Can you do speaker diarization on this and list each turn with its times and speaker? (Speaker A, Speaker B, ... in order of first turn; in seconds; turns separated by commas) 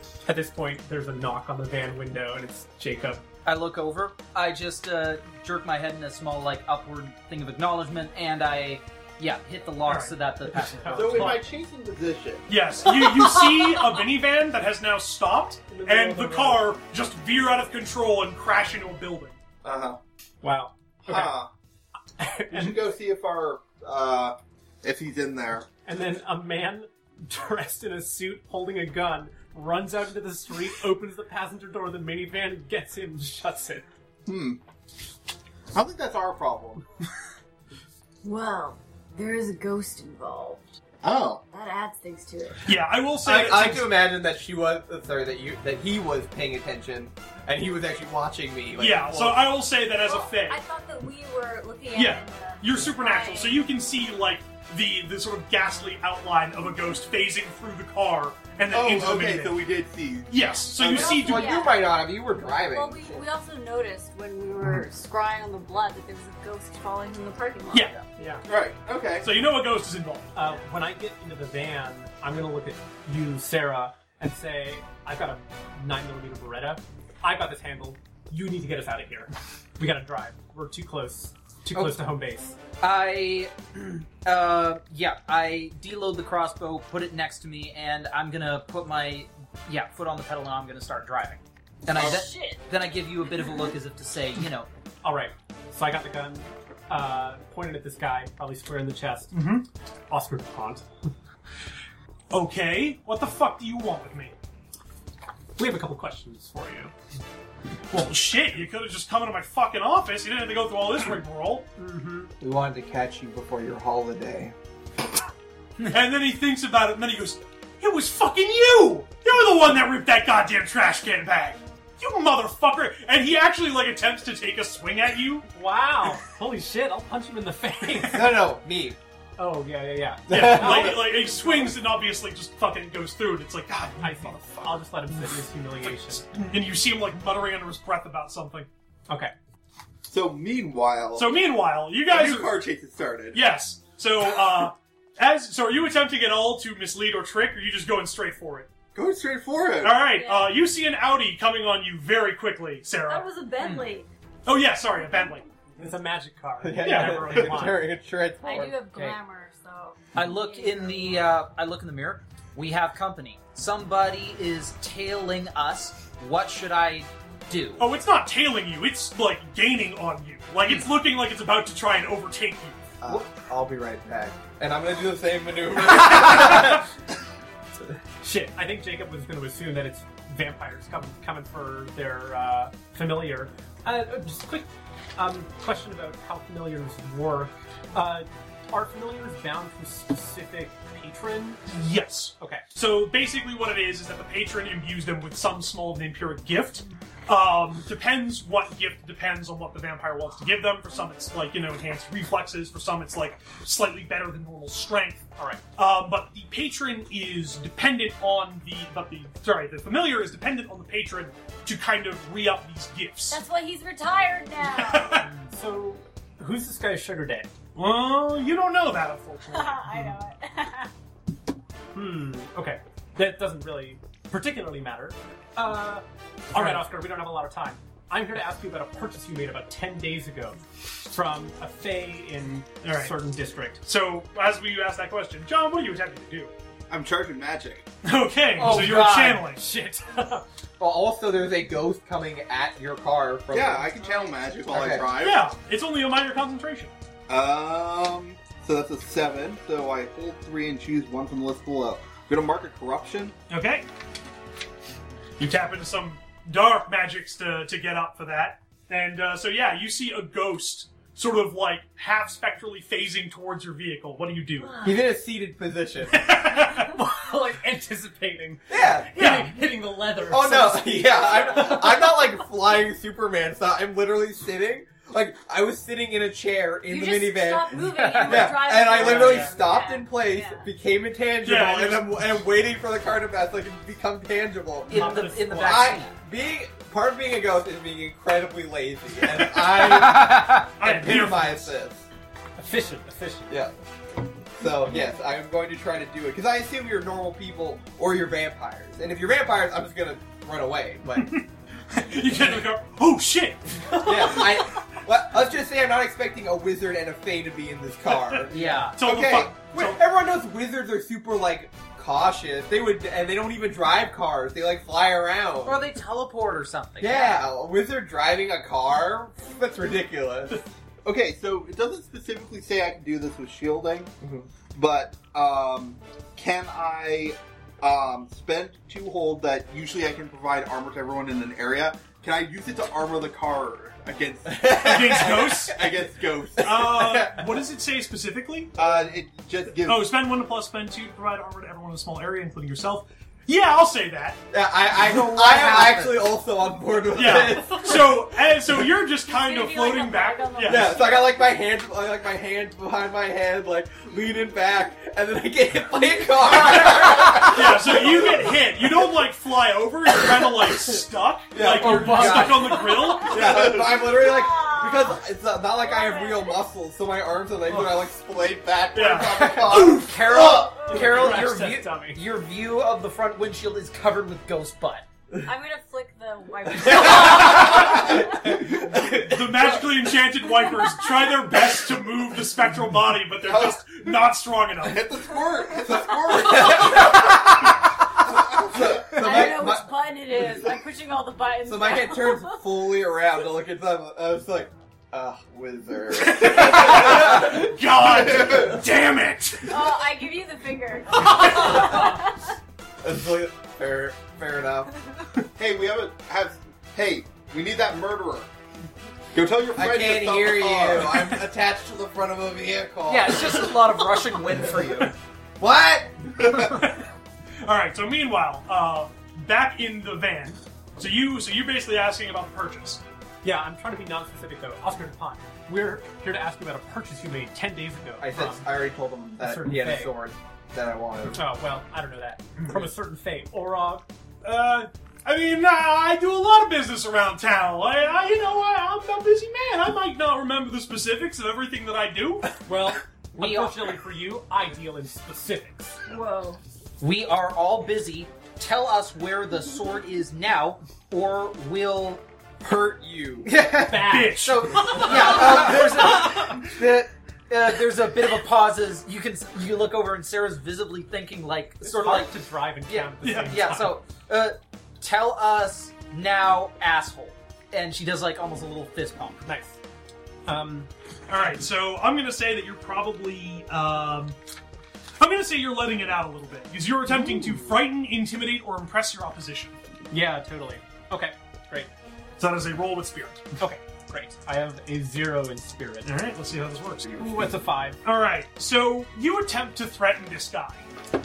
Speaker A: 0.3-3.2, Speaker B: 3.5-11.5, Speaker C: 9.9-10.1, Speaker A: 10.5-11.4, Speaker D: 10.9-12.5, Speaker C: 12.5-19.4, Speaker A: 12.9-14.0, Speaker A: 15.7-16.7, Speaker D: 19.6-20.0, Speaker A: 20.4-21.4, Speaker D: 21.1-21.5, Speaker A: 22.2-22.9, Speaker D: 22.5-25.7, Speaker A: 25.9-33.9, Speaker D: 34.3-34.6, Speaker D: 35.7-36.8, Speaker E: 38.2-40.7, Speaker D: 41.0-41.4, Speaker E: 41.5-42.7, Speaker C: 42.6-44.0, Speaker F: 43.2-49.5, Speaker C: 48.8-50.6, Speaker E: 49.9-53.6, Speaker C: 52.0-59.6, Speaker D: 58.7-61.4, Speaker C: 60.3-61.7, Speaker E: 60.9-61.9, Speaker F: 61.0-63.2, Speaker E: 62.5-68.0, Speaker A: 68.2-68.5, Speaker D: 68.5-69.3, Speaker C: 69.2-70.3, Speaker A: 70.3-82.6, Speaker B: 82.8-94.7, Speaker D: 91.9-92.2, Speaker E: 92.0-92.6, Speaker A: 95.0-99.4, Speaker C: 99.3-99.7, Speaker A: 100.1-100.9, Speaker C: 102.3-104.3, Speaker A: 105.6-106.9, Speaker C: 107.9-111.6, Speaker A: 111.8-112.3, Speaker F: 112.4-114.5, Speaker C: 115.9-125.5, Speaker A: 125.5-128.4, Speaker F: 128.0-129.0, Speaker A: 129.4-131.6, Speaker F: 130.3-131.0, Speaker C: 130.3-135.3, Speaker A: 134.0-136.2, Speaker C: 135.8-138.7, Speaker D: 140.1-141.3, Speaker C: 141.2-142.6, Speaker D: 142.1-143.4, Speaker C: 143.3-148.7, Speaker D: 148.9-150.1, Speaker C: 149.8-153.3, Speaker E: 150.1-150.6, Speaker E: 153.1-154.1, Speaker C: 154.5-155.4, Speaker A: 155.8-157.8, Speaker F: 156.6-159.2, Speaker C: 156.8-157.8, Speaker E: 158.4-161.2, Speaker B: 160.1-167.9, Speaker C: 167.8-172.8, Speaker F: 173.0-176.9, Speaker A: 178.2-191.6, Speaker C: 191.7-213.4, Speaker E: 213.3-215.3, Speaker C: 214.6-215.3, Speaker B: 215.2-215.5, Speaker A: 215.5-217.5, Speaker C: 217.8-220.1, Speaker E: 219.5-220.9, Speaker A: 221.9-233.8, Speaker C: 226.5-226.8, Speaker C: 232.8-233.1, Speaker C: 233.8-236.5, Speaker D: 236.9-237.9, Speaker C: 238.0-239.6, Speaker B: 238.6-239.4, Speaker A: 239.5-240.4, Speaker F: 240.8-245.1, Speaker D: 243.5-245.5, Speaker C: 245.2-246.9, Speaker D: 247.3-253.3, Speaker C: 253.5-253.9, Speaker C: 255.4-264.8, Speaker E: 264.6-265.0, Speaker F: 264.8-266.3, Speaker C: 266.1-266.9, Speaker A: 266.5-272.2, Speaker F: 268.7-269.1, Speaker C: 269.2-269.5, Speaker F: 270.3-292.1, Speaker E: 276.9-280.7, Speaker B: 277.8-278.6, Speaker A: 279.0-279.5, Speaker C: 281.4-282.2, Speaker A: 284.9-286.0, Speaker B: 284.9-286.1, Speaker B: 289.5-290.8, Speaker C: 290.8-291.7, Speaker A: 292.6-293.5, Speaker F: 294.5-301.4, Speaker C: 301.2-304.6, Speaker F: 303.9-315.9, Speaker C: 308.1-308.4, Speaker B: 308.5-309.0, Speaker C: 309.0-310.0, Speaker B: 315.6-317.5, Speaker F: 317.0-320.7, Speaker D: 321.1-324.1, Speaker F: 324.2-324.5, Speaker D: 324.7-337.1, Speaker F: 334.5-335.9, Speaker C: 334.6-335.8, Speaker C: 336.6-338.8, Speaker F: 336.6-337.4, Speaker D: 338.8-340.1, Speaker C: 339.8-344.4, Speaker F: 344.5-348.3, Speaker B: 345.0-346.3, Speaker C: 347.1-351.1, Speaker E: 349.3-351.3, Speaker F: 350.6-358.9, Speaker C: 356.8-363.8, Speaker F: 361.5-370.0, Speaker B: 361.6-362.8, Speaker E: 363.1-363.4, Speaker D: 363.3-364.0, Speaker E: 364.0-366.6, Speaker C: 367.7-367.9, Speaker D: 368.5-370.8, Speaker C: 368.9-369.4, Speaker B: 369.3-375.1, Speaker A: 370.9-372.2, Speaker E: 375.4-378.2, Speaker F: 376.9-379.6, Speaker C: 378.5-385.2, Speaker D: 383.4-384.1, Speaker D: 384.8-387.4, Speaker F: 385.9-389.9, Speaker D: 388.3-389.4, Speaker E: 389.1-392.6, Speaker F: 391.6-397.7, Speaker C: 396.2-399.9, Speaker D: 397.4-398.8, Speaker E: 399.7-402.6, Speaker F: 403.0-404.9, Speaker D: 405.6-408.5, Speaker D: 409.3-411.4, Speaker F: 409.8-413.8, Speaker B: 413.1-415.1, Speaker F: 415.6-416.8, Speaker D: 416.4-416.8, Speaker C: 416.6-417.1, Speaker C: 417.6-423.0, Speaker A: 423.4-428.7, Speaker F: 428.2-431.4, Speaker A: 429.4-430.1, Speaker A: 431.3-434.1, Speaker C: 432.6-432.9, Speaker C: 434.4-442.5, Speaker A: 442.6-446.1, Speaker B: 443.4-443.8, Speaker E: 446.1-446.6, Speaker B: 447.0-452.2, Speaker F: 452.6-453.5, Speaker B: 453.4-462.4, Speaker A: 453.8-456.1, Speaker C: 454.1-455.5, Speaker F: 455.1-456.4, Speaker A: 461.8-463.9, Speaker B: 462.9-469.4, Speaker C: 463.2-463.6, Speaker A: 469.4-469.8, Speaker A: 470.5-470.9, Speaker C: 471.3-474.4, Speaker C: 475.2-479.8, Speaker A: 480.1-481.9, Speaker C: 482.4-483.6, Speaker A: 483.6-486.2, Speaker C: 486.0-487.1, Speaker D: 487.1-487.3, Speaker A: 487.1-488.0, Speaker C: 488.0-490.9